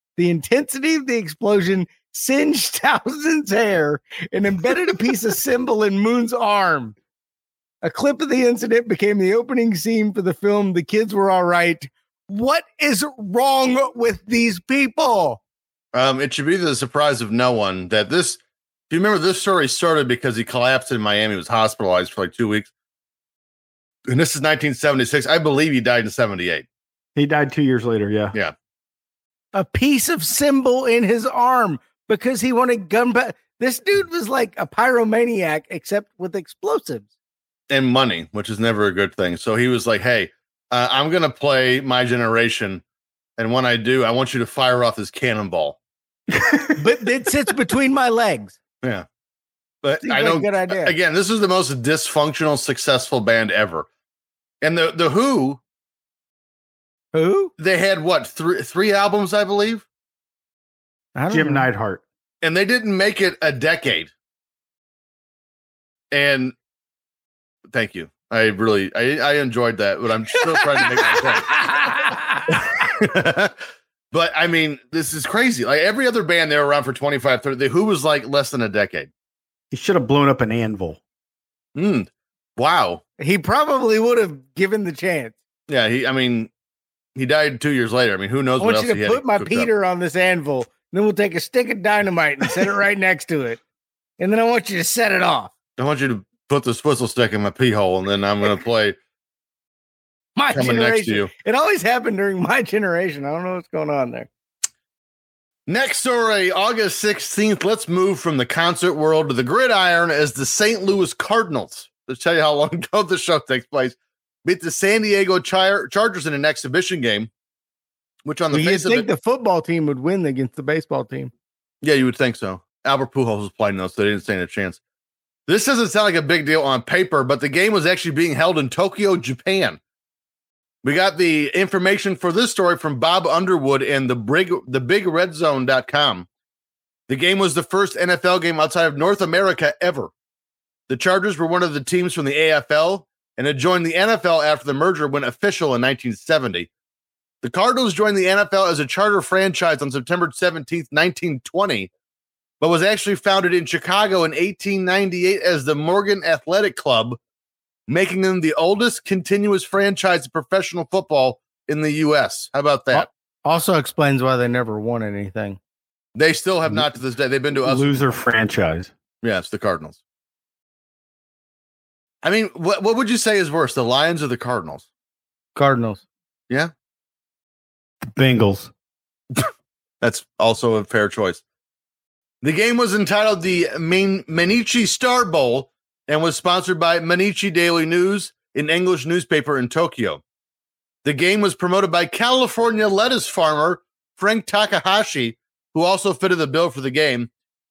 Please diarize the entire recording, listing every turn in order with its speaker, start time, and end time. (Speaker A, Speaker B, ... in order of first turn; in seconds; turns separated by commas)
Speaker A: 0.2-6.9, Speaker A: 7.8-15.4, Speaker B: 15.9-22.7, Speaker B: 24.1-26.6, Speaker C: 27.1-28.4, Speaker A: 29.5-37.0, Speaker B: 37.7-42.8, Speaker B: 43.4-45.8, Speaker C: 46.3-46.7, Speaker A: 46.8-48.5, Speaker B: 49.8-53.9, Speaker A: 50.0-50.9, Speaker B: 54.6-55.6, Speaker A: 57.1-57.5, Speaker B: 57.6-59.8, Speaker A: 61.1-61.6, Speaker C: 61.3-62.0, Speaker B: 62.4-64.1, Speaker B: 66.1-66.5, Speaker B: 67.7-73.6, Speaker A: 70.6-72.6, Speaker B: 74.1-79.1, Speaker C: 79.7-81.0, Speaker B: 81.7-83.0, Speaker A: 83.2-85.3, Speaker B: 85.7-86.5, Speaker B: 87.1-89.7, Speaker A: 88.6-93.6, Speaker A: 94.2-95.5, Speaker B: 95.8-99.0, Speaker A: 100.3-104.3, Speaker B: 100.5-101.3, Speaker B: 105.7-117.3, Speaker B: 118.2-119.1, Speaker A: 118.5-121.3, Speaker B: 121.8-124.8, Speaker B: 125.5-129.8, Speaker B: 130.8-136.3, Speaker B: 137.1-140.1, Speaker B: 140.9-146.7, Speaker B: 147.4-151.9, Speaker B: 152.6-157.2, Speaker B: 157.9-163.1, Speaker A: 162.9-165.6, Speaker B: 166.1-167.9, Speaker C: 167.6-168.9, Speaker B: 169.2-170.0, Speaker B: 172.2-174.9, Speaker A: 175.5-176.0, Speaker C: 178.1-178.7, Speaker B: 180.0-181.4, Speaker B: 182.4-190.2, Speaker B: 191.0-197.3